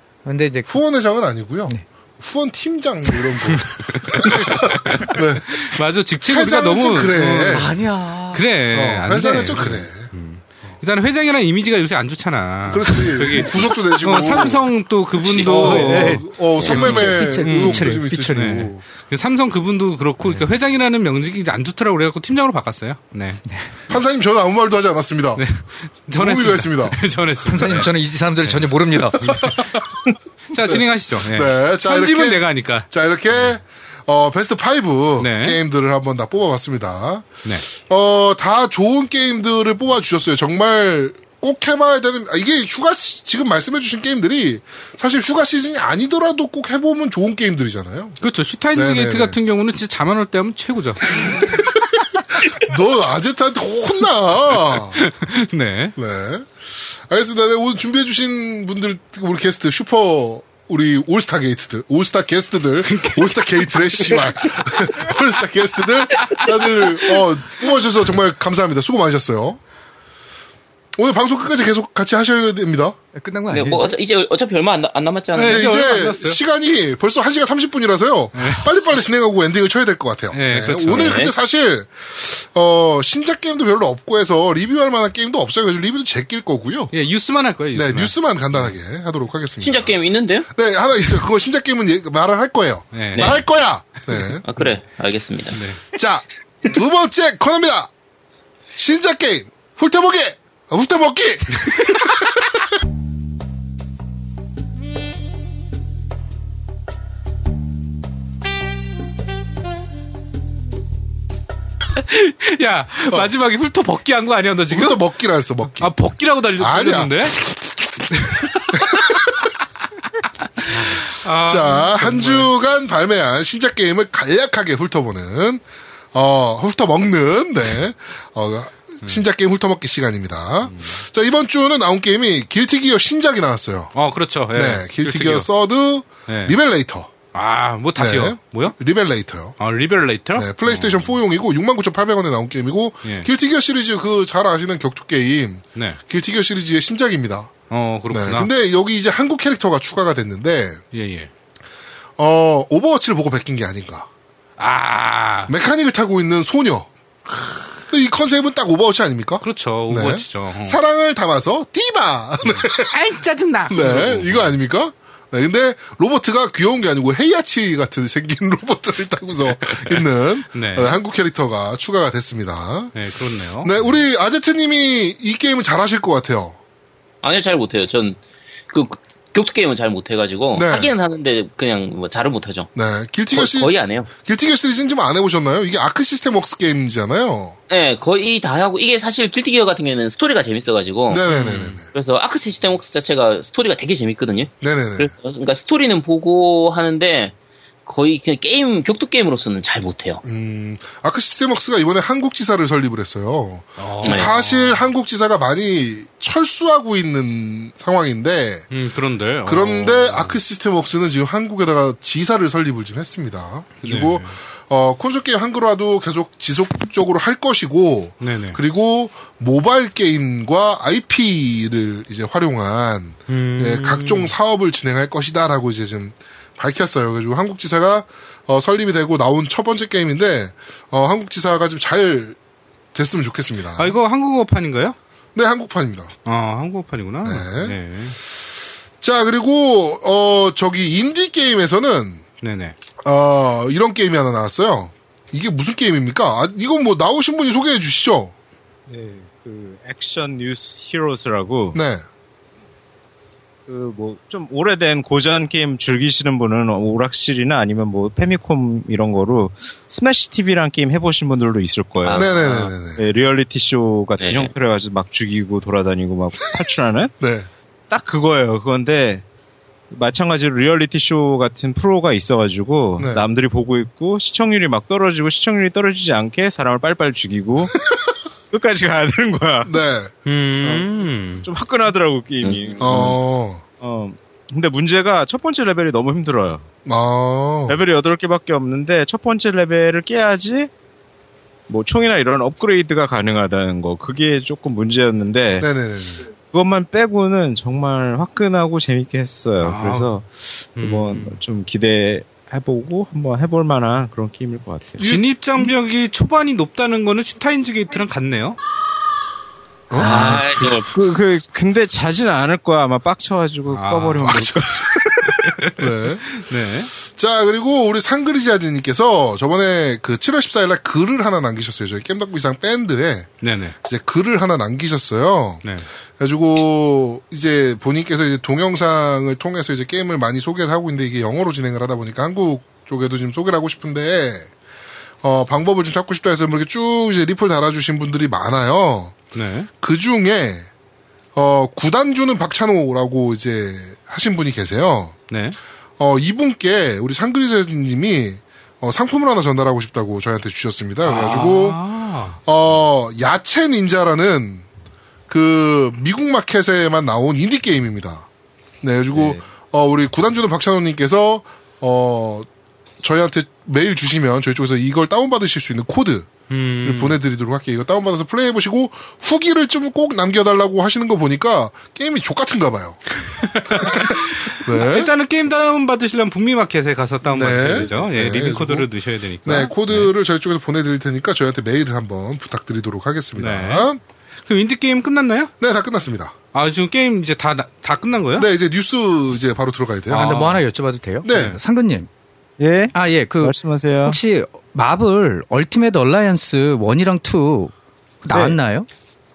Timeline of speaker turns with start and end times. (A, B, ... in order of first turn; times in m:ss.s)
0:00.2-0:00.8 A
0:00.7-0:05.6 B
0:03.1-0:05.1 A
0:04.0-0:07.7 C
0:06.2-0:07.7 B
0:07.4-0:08.5 A
0:08.3-0:23.4 C
0:08.7-0:10.1 B
0:09.1-0:09.6 A
0:12.7-0:14.7 B
0:15.2-0:15.5 D
0:15.4-0:18.8 B
0:15.5-0:16.2 E
0:15.6-0:18.6 A
0:23.5-0:23.7 A
0:23.9-0:25.4 B
0:25.4-0:27.9 C
0:26.2-0:27.0 B
0:27.4-0:29.6 A
0:28.4-0:29.4 C
0:29.2-0:29.8 B
0:30.5-0:33.5 C
0:30.6-0:48.2 B
0:35.2-0:35.6 C
0:48.2-0:51.4 C
0:48.7-0:49.4 B
0:51.3-0:51.8 B
0:52.5-0:55.0 B
0:54.7-0:55.9 C
0:56.0-1:09.6 B
1:02.8-1:04.3 C
1:11.0-1:13.0 B
1:13.1-1:14.0 A
1:13.5-1:15.6 D
1:15.3-1:16.4 C
1:15.5-1:26.9 B
1:18.4-1:18.6 C
1:20.3-1:21.2 C
1:20.9-1:21.3 D
1:26.9-1:28.7 C
1:27.7-1:29.9 B
1:29.6-1:30.5 D
1:30.5-1:34.4 B
1:32.9-1:33.4 C
1:34.4-1:35.6 D
1:35.5-1:35.8 C
1:35.9-1:37.9 B
1:38.8-1:42.2 B
1:52.0-1:55.0 C
1:54.7-1:55.9 B
1:55.8-1:57.4 C
1:56.6-1:57.3 B
1:58.1-1:59.2 C
1:58.7-1:59.1 B
2:00.6-2:02.5 C
2:00.7-2:13.9 B
2:13.9-2:15.5 C
2:14.5-2:17.1 B
2:16.3-2:16.6 C
2:17.3-2:18.7 C
2:18.0-2:19.6 B
2:19.6-2:21.1 C
2:20.3-2:27.5 B
2:27.7-2:28.5 C
2:28.1-2:30.8 B
2:30.9-2:31.3 C
2:32.2-2:34.1 B
2:34.6-2:35.5 C
2:35.5-2:36.9 B
2:37.9-2:42.9 B
2:39.4-2:40.8 C
2:42.4-2:44.5 C
2:43.7-2:53.0 B
2:50.5-2:51.0 C
2:52.9-2:53.8 C
2:53.6-2:56.6 B
2:57.2-2:58.2 D
2:58.7-3:02.7 D
3:00.5-3:00.9 B
3:02.7-3:07.6 B
3:03.3-3:04.1 D
3:07.7-3:11.2 D
3:11.1-3:11.9 B
3:11.3-3:11.8 C
3:11.9-3:17.3 D
3:14.6-3:15.1 B
3:17.8-3:20.2 D
3:20.2-3:28.6 B
3:23.8-3:24.8 C
3:24.0-3:24.3 D
3:28.7-3:30.4 C
3:29.4-3:52.4 B
3:33.8-3:34.3 C
3:38.2-3:38.6 C
3:43.3-3:44.3 C
3:52.9-3:53.9 B
3:53.8-3:55.0 C
3:55.3-3:56.1 B
3:56.2-3:58.2 C
3:57.2-3:57.8 B
3:59.0-4:02.2 B
4:02.4-4:02.7 C
4:03.0-4:08.3 B
4:08.9-4:11.8 E
4:11.7-4:12.0 B
4:13.7-4:27.1 E
4:22.0-4:22.7 D
4:22.1-4:23.1 B
4:24.2-4:24.5 D
4:27.2-4:27.5 B
4:27.9-4:29.2 E
4:29.9-4:37.9 E
4:33.0-4:33.2 B
4:38.5-4:39.7 E
4:39.6-4:40.8 B
4:40.2-4:41.5 C
4:41.4-4:43.2 E
4:42.4-4:43.2 D
4:42.8-4:43.6 B
4:43.8-4:46.7 E
4:46.8-4:47.8 B
4:47.7-4:50.7 E
4:51.7-4:55.7 E
4:55.6-4:56.3 B
4:56.4-5:05.0 E
4:59.6-5:00.1 C
5:00.8-5:01.4 C
5:05.0-5:05.7 B
5:05.0-5:08.6 C
5:09.9-5:10.4 B
5:10.0-5:10.9 D
5:10.0-5:15.7 E
5:10.0-5:10.7 C
5:13.7-5:14.4 C
5:14.2-5:14.8 B
5:15.8-5:16.2 B
5:16.3-5:16.9 C
5:17.1-5:23.3 B
5:23.4-5:23.8 C
5:23.8-5:25.6 B
5:26.2-5:34.5 B
5:35.2-5:39.2 B
5:39.3-5:39.7 C
5:39.8-5:40.7 B
5:41.3-5:45.2 B
5:45.3-5:45.6 C
5:46.0-5:51.8 B
5:51.0-5:52.4 C
5:52.4-5:54.6 B
5:55.3-5:58.3 B
5:58.8-6:02.5 B
5:59.1-5:59.4 E
6:03.0-6:13.1 B
6:06.5-6:07.2 C
6:13.3-6:20.1 C
6:13.7-6:15.1 B
6:17.2-6:18.9 B
6:19.4-6:24.0 B
6:23.4-6:23.9 C
6:24.4-6:25.5 C
6:25.6-6:26.3 B
6:26.5-6:28.5 C
6:28.4-6:30.3 B
6:30.1-6:30.6 C
6:30.1-6:32.1 A
6:31.2-6:31.6 B
6:31.3-6:31.6 C
6:32.6-6:34.2 E
6:32.9-6:38.9 A
6:38.3-6:38.6 E